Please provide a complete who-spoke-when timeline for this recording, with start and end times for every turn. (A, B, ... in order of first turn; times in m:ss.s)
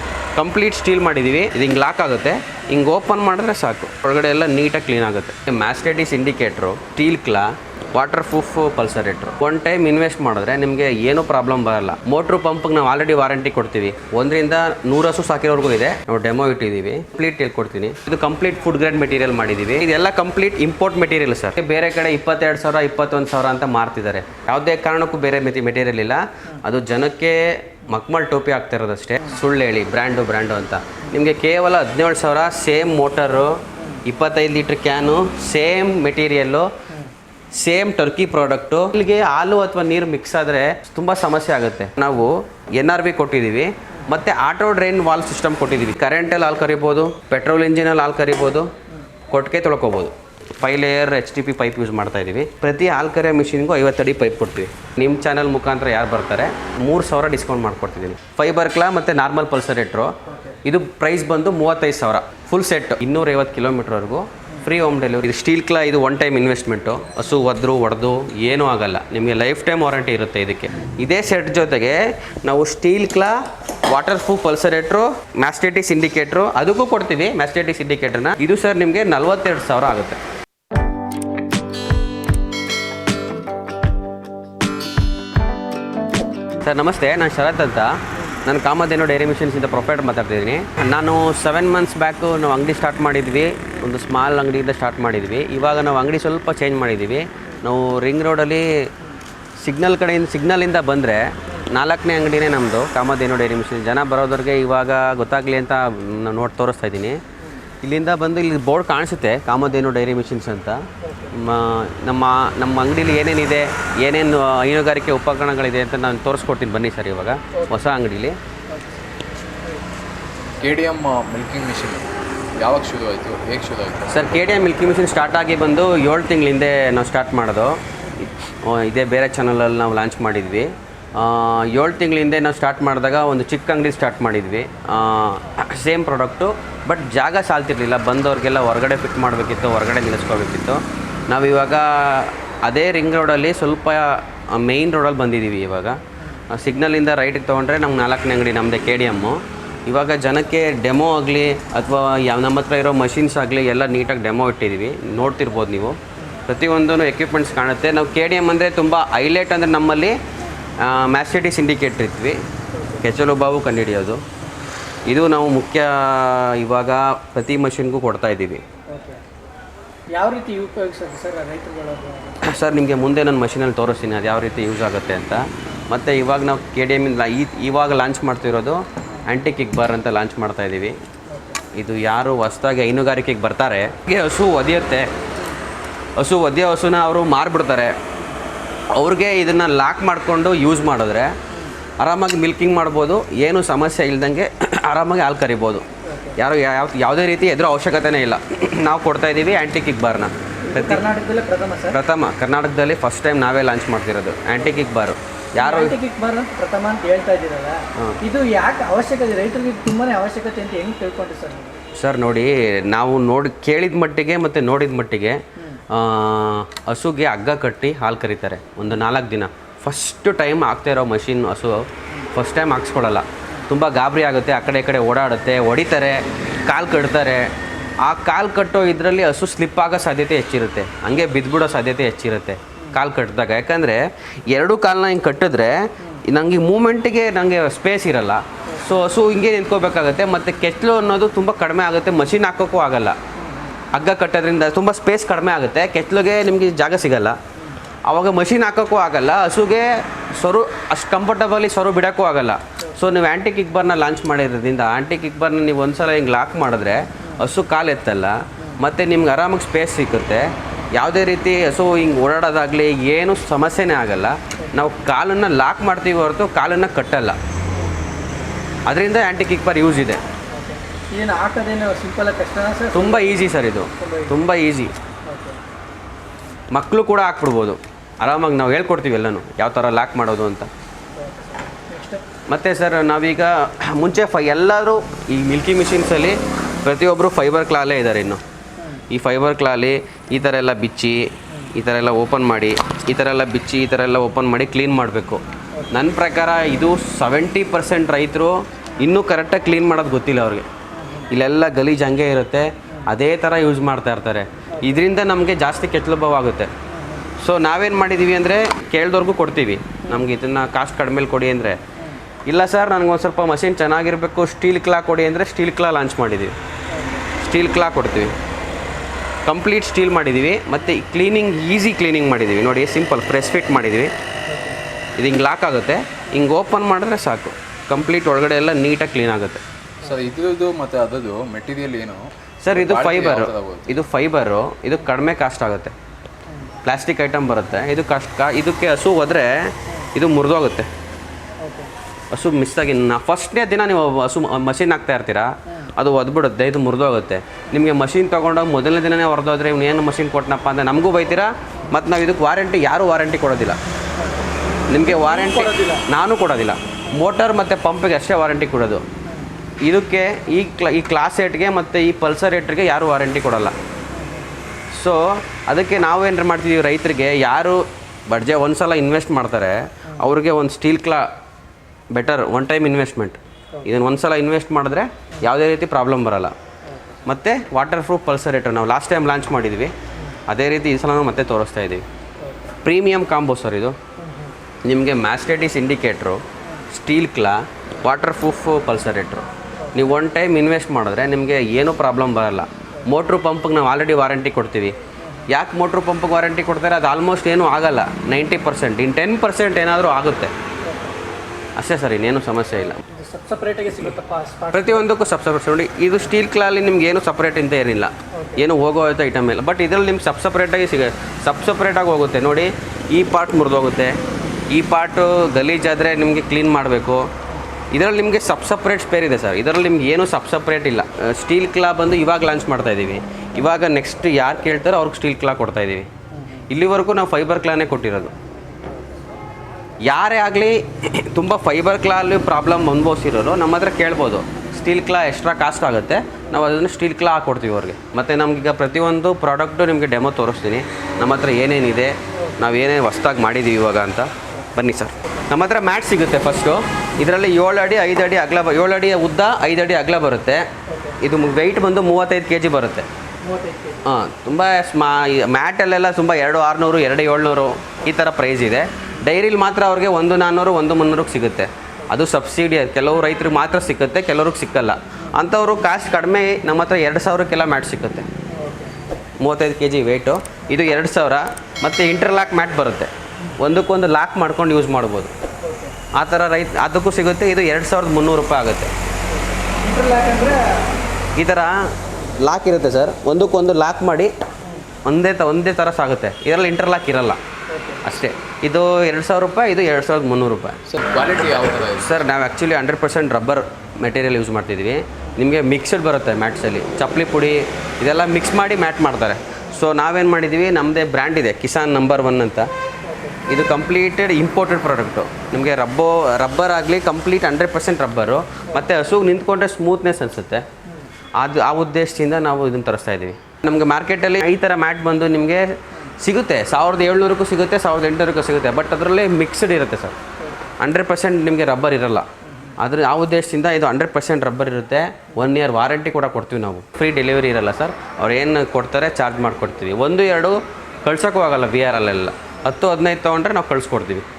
0:00.3-0:36.7 A
0:37.6-0:48.7 A
0:49.3-1:20.2 A
1:00.2-1:00.6 B
1:26.6-1:38.7 A
1:39.6-1:47.2 A
1:47.8-1:58.4 A
1:51.0-1:51.4 B
1:58.7-1:59.0 B
2:00.6-2:04.4 C
2:04.1-2:40.2 A
2:40.8-2:42.4 A
2:42.7-2:43.0 B
2:43.0-2:44.2 A
2:45.1-2:48.6 A
2:48.9-2:49.2 B
2:50.1-2:52.5 B
2:52.4-3:01.0 A
3:01.3-3:01.6 B
3:01.7-3:05.1 A
3:06.2-3:07.9 A
3:08.9-3:11.4 A
3:12.0-3:15.8 A
3:16.0-3:16.4 B
3:16.4-3:21.0 A
3:20.6-3:22.0 B
3:21.9-3:26.0 A
3:25.6-3:31.8 B
3:32.0-4:03.2 A
3:58.7-3:59.0 B
4:03.4-4:03.8 B
4:03.9-4:07.4 A
4:08.0-4:27.4 A
4:28.9-4:30.2 A
4:30.5-4:34.4 B
4:32.9-4:34.9 A
4:35.3-4:35.6 B
4:36.7-4:40.7 A
4:41.1-4:42.2 B
4:42.5-4:48.4 A
4:49.1-5:00.7 A
5:00.9-5:01.3 B
5:01.3-5:06.7 A
5:06.9-5:07.3 B
5:07.4-5:11.8 A
5:12.4-5:16.5 A
5:16.9-5:17.3 B
5:17.4-5:18.4 A
5:19.4-5:24.1 A
5:24.5-5:24.8 B
5:25.2-5:29.6 A
5:30.0-5:34.0 C
5:32.6-5:35.9 A
5:36.8-5:40.9 A
5:41.6-5:41.9 B
5:42.3-5:53.8 A
5:54.2-5:56.0 B
5:54.9-5:59.0 A
5:59.3-5:59.5 B
5:59.8-6:03.8 A
6:04.1-6:04.5 B
6:04.9-6:11.3 A
6:12.1-6:16.6 A
6:16.9-6:17.2 B
6:17.2-6:19.9 A
6:20.5-6:22.0 A
6:22.4-6:22.8 B
6:22.8-6:24.0 A
6:24.2-6:24.5 B
6:24.8-6:35.0 A
6:29.8-6:30.1 B
6:35.5-6:40.5 A
6:40.8-6:41.2 B
6:41.8-6:43.0 A
6:43.1-6:45.1 B
6:44.7-6:57.3 A
6:48.3-6:48.6 B
6:57.9-7:06.1 A
7:06.4-7:06.6 B
7:06.7-7:08.3 A
7:10.0-7:30.7 A
7:30.9-7:31.2 B
7:31.2-7:33.1 A
7:33.4-7:34.0 B
7:34.0-7:48.3 A
7:48.5-7:49.0 B
7:49.4-7:55.3 A
7:55.6-7:56.0 B
7:56.1-7:58.9 A
7:59.3-8:00.9 B
8:01.4-8:01.8 A
8:02.4-8:04.3 A
8:05.0-8:07.4 A
8:07.7-8:08.0 B
8:08.0-8:10.8 A
8:10.9-8:12.3 C
8:11.9-8:22.7 A
8:23.0-8:23.4 B
8:23.5-8:30.6 A
8:31.4-8:40.2 A
8:40.4-8:40.7 B
8:40.8-8:54.2 A
8:42.5-8:42.7 B